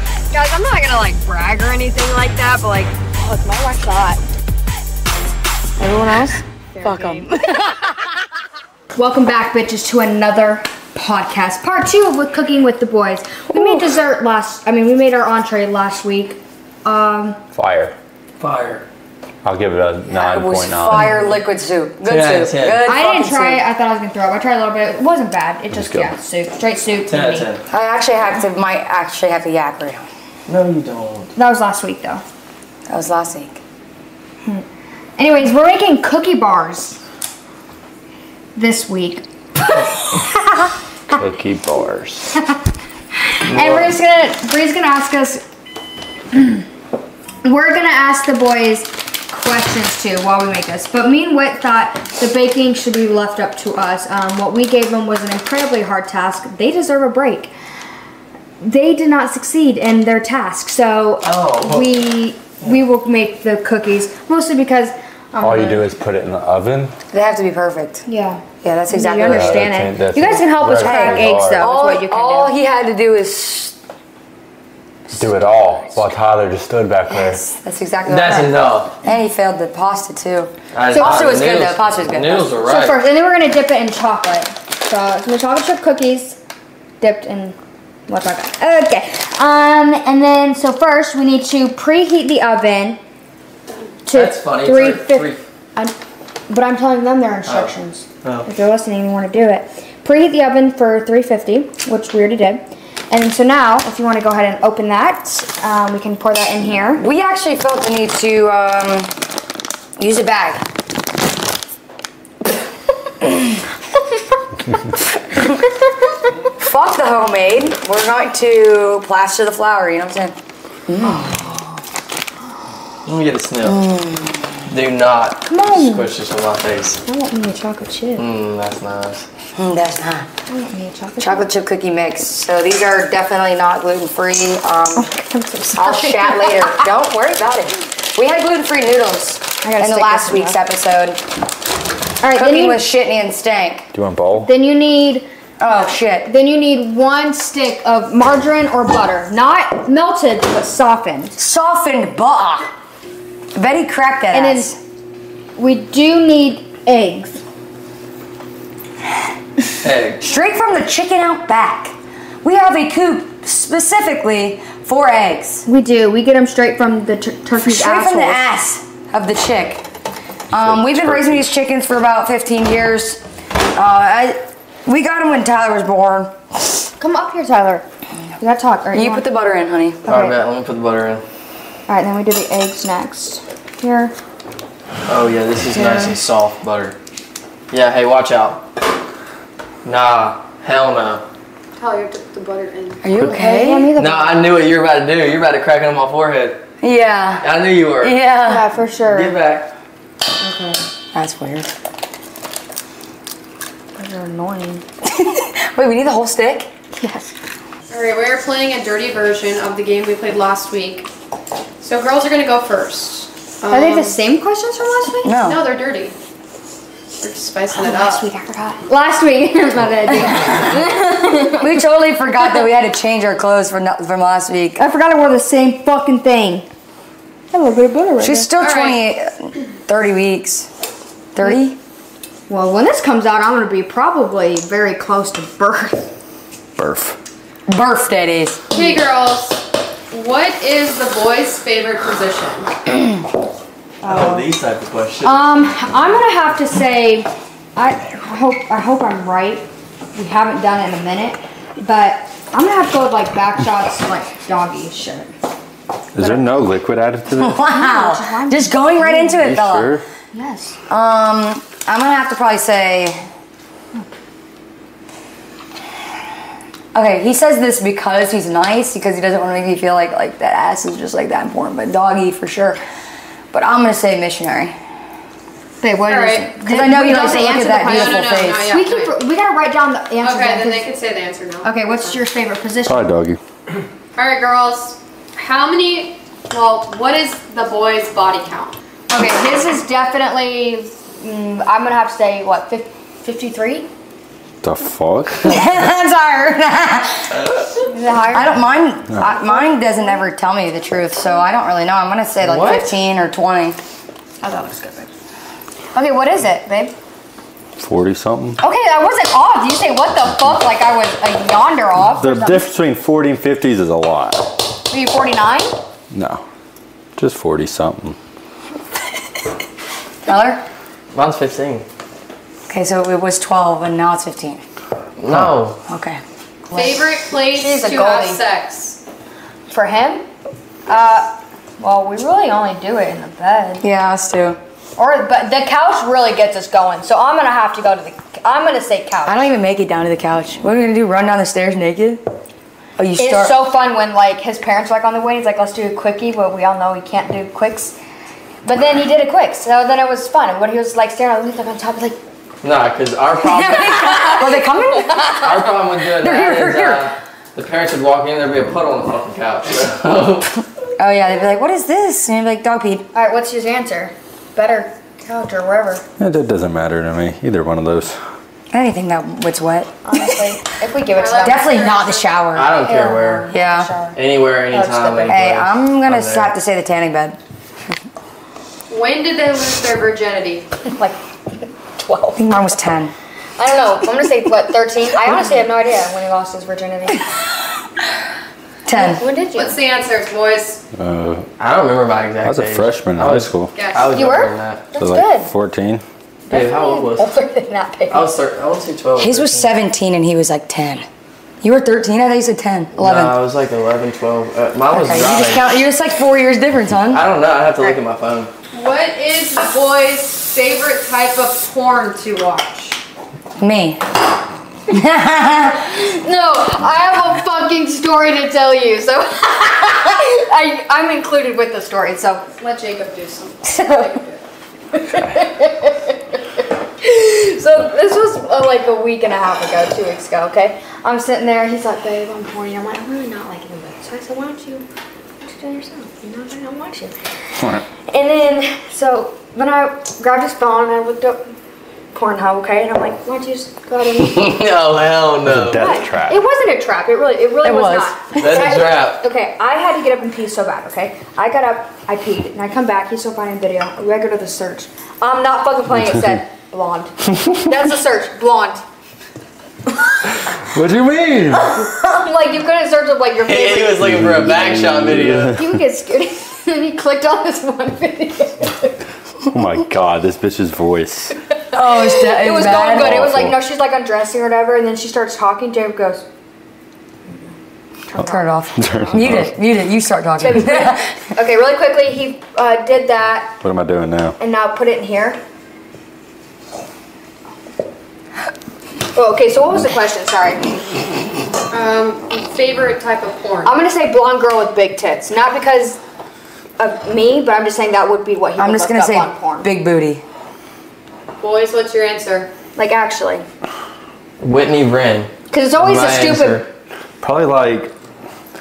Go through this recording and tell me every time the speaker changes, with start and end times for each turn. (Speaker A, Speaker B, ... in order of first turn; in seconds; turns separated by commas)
Speaker A: 0.3-4.2, Speaker A: 5.8-7.5, Speaker B: 6.8-7.8, Speaker A: 8.9-17.4, Speaker B: 13.5-13.8, Speaker C: 17.5-17.9, Speaker D: 18.4-18.8, Speaker C: 19.4-21.2, Speaker B: 20.1-23.6, Speaker D: 20.9-21.4, Speaker D: 22.0-22.9, Speaker A: 22.8-27.5, Speaker C: 25.7-26.1, Speaker D: 27.1-27.6, Speaker B: 27.7-30.0, Speaker D: 30.5-31.3, Speaker A: 31.3-32.2, Speaker B: 32.9-33.6, Speaker A: 35.2-37.0, Speaker A: 38.5-41.2, Speaker C: 41.1-42.4, Speaker A: 43.2-45.4, Speaker D: 43.5-44.0, Speaker A: 46.3-46.6, Speaker A: 47.4-57.5, Speaker A: 58.6-65.8, Speaker D: 61.2-62.0, Speaker C: 65.4-66.9, Speaker B: 67.1-68.0, Speaker A: 68.1-72.5, Speaker B: 68.6-69.8, Speaker C: 69.2-71.7, Speaker B: 70.8-73.7, Speaker C: 75.1-77.4, Speaker B: 77.4-82.5, Speaker D: 78.0-78.9, Speaker D: 80.7-83.0, Speaker A: 80.9-81.4, Speaker A: 82.6-86.4, Speaker A: 87.0-87.5, Speaker A: 88.1-93.0, Speaker A: 94.1-95.9, Speaker D: 94.1-95.4, Speaker A: 96.5-107.0, Speaker D: 97.5-98.5, Speaker B: 107.0-109.1, Speaker B: 110.0-110.6, Speaker B: 116.6-120.3, Speaker B: 120.9-121.4, Speaker D: 123.0-123.9, Speaker B: 123.6-124.5, Speaker D: 124.7-127.0, Speaker A: 125.5-126.1, Speaker A: 127.0-128.3, Speaker D: 128.2-129.2, Speaker B: 129.6-130.3, Speaker A: 130.5-131.5, Speaker B: 131.2-135.1, Speaker A: 134.9-136.7, Speaker B: 135.7-141.2, Speaker A: 139.6-140.6, Speaker A: 142.2-142.8, Speaker B: 142.3-143.9, Speaker C: 143.9-144.5, Speaker A: 144.4-151.3, Speaker B: 145.6-146.3, Speaker B: 151.4-152.7, Speaker B: 153.5-154.8, Speaker A: 154.3-154.7, Speaker A: 155.6-157.4, Speaker D: 159.8-160.2, Speaker B: 160.2-165.6, Speaker A: 165.7-168.4, Speaker B: 167.6-169.8, Speaker B: 170.5-173.2, Speaker C: 170.6-171.4, Speaker B: 173.7-176.3, Speaker A: 177.0-177.8, Speaker A: 178.4-179.2, Speaker B: 178.9-180.0, Speaker D: 180.1-181.2, Speaker A: 180.1-180.3, Speaker A: 181.9-184.1, Speaker D: 185.1-186.9, Speaker D: 187.7-188.6, Speaker D: 189.8-191.2, Speaker E: 191.8-193.0, Speaker B: 193.0-193.9, Speaker A: 193.2-194.6, Speaker D: 194.0-196.6, Speaker B: 196.8-198.7, Speaker D: 197.4-198.2, Speaker A: 198.4-199.3, Speaker D: 199.0-199.7, Speaker A: 200.4-200.8, Speaker B: 201.1-201.7, Speaker A: 203.9-204.8, Speaker B: 205.0-206.7, Speaker A: 207.0-207.3, Speaker E: 207.9-211.1, Speaker E: 211.8-214.2, Speaker A: 213.7-215.3, Speaker B: 215.2-215.7, Speaker E: 215.3-216.1, Speaker E: 217.2-218.3, Speaker A: 217.8-221.7, Speaker B: 221.5-224.8, Speaker A: 224.8-226.7, Speaker A: 227.5-228.5, Speaker B: 228.2-230.7, Speaker E: 228.6-229.0, Speaker B: 231.3-231.8, Speaker A: 232.5-236.1, Speaker C: 236.8-237.2, Speaker B: 237.7-238.6, Speaker E: 238.7-242.7, Speaker A: 244.0-244.5, Speaker D: 244.0-245.5, Speaker A: 245.2-255.3, Speaker C: 256.1-257.6, Speaker A: 256.2-256.4, Speaker B: 257.4-260.0, Speaker A: 257.7-259.4, Speaker C: 259.4-260.0, Speaker A: 260.3-260.8, Speaker B: 260.9-263.2, Speaker B: 266.9-272.8, Speaker B: 273.5-274.7, Speaker A: 275.8-280.9, Speaker E: 276.1-276.5, Speaker B: 276.6-278.7, Speaker E: 277.6-279.1, Speaker E: 280.2-282.1, Speaker A: 281.6-283.0, Speaker C: 282.9-283.4, Speaker E: 284.1-288.8, Speaker A: 289.1-293.9, Speaker C: 294.6-295.6, Speaker B: 295.4-297.4, Speaker A: 297.9-300.2, Speaker B: 298.3-303.8, Speaker D: 302.4-302.9, Speaker A: 304.4-305.1, Speaker A: 305.9-306.9, Speaker C: 307.8-308.6, Speaker A: 308.6-312.6, Speaker C: 312.2-314.6, Speaker A: 314.9-315.7, Speaker C: 316.1-316.4, Speaker C: 317.2-318.2, Speaker B: 320.2-320.6, Speaker D: 321.1-321.8, Speaker B: 322.7-324.6, Speaker D: 325.2-325.8, Speaker B: 325.9-326.2, Speaker E: 326.7-329.0, Speaker A: 327.5-328.4, Speaker A: 329.7-330.2, Speaker A: 330.9-333.8, Speaker B: 333.8-334.6, Speaker A: 335.0-339.5, Speaker B: 339.2-342.2, Speaker B: 343.0-343.6, Speaker A: 343.2-347.9, Speaker A: 348.6-352.2, Speaker D: 352.6-354.4, Speaker B: 353.4-355.3, Speaker A: 354.3-355.7, Speaker D: 355.4-360.6, Speaker B: 356.2-357.1, Speaker B: 361.0-363.1, Speaker A: 363.1-366.0, Speaker C: 366.2-368.2, Speaker B: 368.7-370.5, Speaker A: 370.0-371.8, Speaker E: 371.1-372.3, Speaker B: 371.4-372.8, Speaker D: 372.5-373.5, Speaker A: 372.8-375.4, Speaker B: 373.5-373.9, Speaker D: 374.1-376.5, Speaker B: 375.3-377.4, Speaker E: 378.9-380.7, Speaker A: 380.9-381.2, Speaker A: 382.0-382.4, Speaker B: 382.3-383.1, Speaker A: 383.6-387.2, Speaker B: 388.9-389.2, Speaker A: 388.9-389.8, Speaker E: 389.5-390.8, Speaker C: 390.9-391.5, Speaker D: 391.6-394.8, Speaker C: 392.4-393.7, Speaker E: 393.7-394.2, Speaker A: 394.0-395.5, Speaker C: 395.0-396.0, Speaker A: 396.5-398.3, Speaker D: 396.5-397.3, Speaker D: 398.1-399.7, Speaker B: 399.2-401.1, Speaker B: 401.6-403.4, Speaker D: 402.9-405.8, Speaker B: 404.9-407.2, Speaker D: 407.1-408.5, Speaker E: 408.7-413.0, Speaker B: 413.6-414.0, Speaker B: 414.9-415.8, Speaker A: 415.6-422.5, Speaker E: 422.6-424.4, Speaker A: 423.7-424.1, Speaker A: 424.9-426.1, Speaker A: 427.0-434.9, Speaker A: 435.4-441.4, Speaker A: 442.1-444.7, Speaker D: 444.1-445.9, Speaker C: 445.4-446.4, Speaker A: 445.7-458.8, Speaker B: 447.6-448.8, Speaker D: 448.3-449.2, Speaker C: 460.7-461.9, Speaker A: 461.7-464.1, Speaker D: 463.4-465.6, Speaker C: 464.1-465.7, Speaker A: 465.5-468.9, Speaker C: 469.5-471.4, Speaker B: 471.7-473.2, Speaker A: 471.7-476.2, Speaker C: 472.7-473.6, Speaker A: 478.1-479.4, Speaker B: 478.2-481.1, Speaker C: 478.8-479.6, Speaker A: 480.4-483.5, Speaker C: 483.6-484.4, Speaker A: 484.4-485.4, Speaker A: 489.1-490.8, Speaker E: 491.7-493.8, Speaker A: 493.6-496.0, Speaker A: 496.8-499.7, Speaker B: 498.6-500.2, Speaker E: 501.4-502.5, Speaker A: 502.8-503.4, Speaker D: 504.4-506.7, Speaker A: 505.5-506.6, Speaker C: 507.2-507.9